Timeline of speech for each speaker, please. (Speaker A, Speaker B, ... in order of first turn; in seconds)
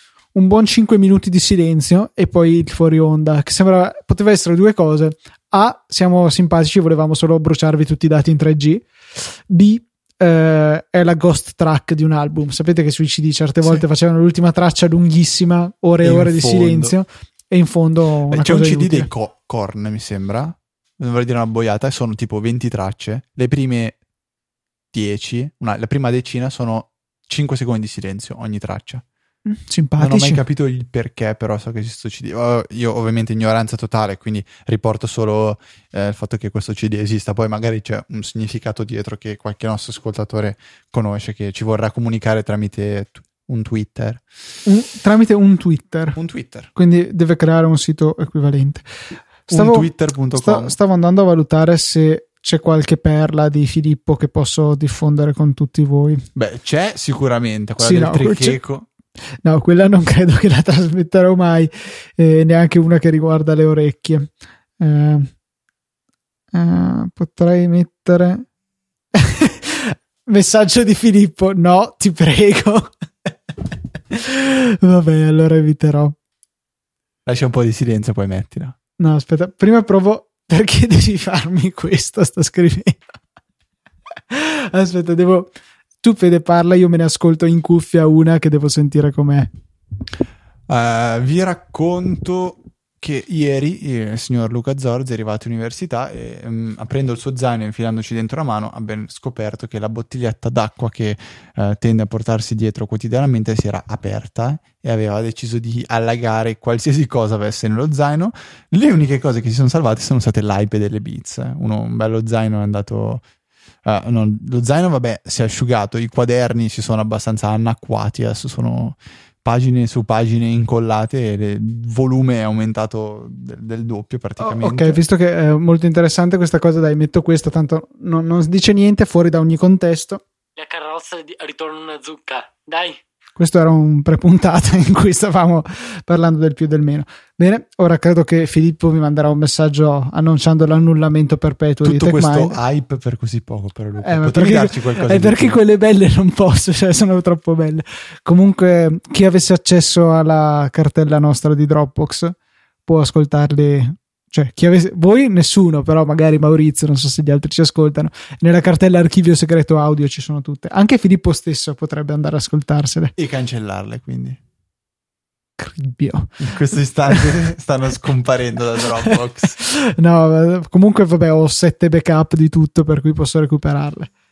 Speaker A: 0.3-19.1, 29.5-30.4, 44.7-46.2, 46.8-48.9, 49.5-56.2, 57.8-58.6, 59.4-65.3, 66.5-68.5, 69.1-73.3, 74.1-76.2, 79.0-83.0, 84.3-89.5, 124.4-130.2, 133.4-142.6, 144.0-163.1, 165.6-167.4, 169.5-174.1
Speaker B: 16.0-17.0, 18.3-24.0, 24.9-29.0, 30.0-44.2, 46.2-46.7, 49.5-50.8, 56.4-58.9, 77.3-78.8, 90.7-113.2, 113.8-125.0, 141.8-145.6, 163.2-164.4, 166.4-169.6
Speaker C: 130.6-133.0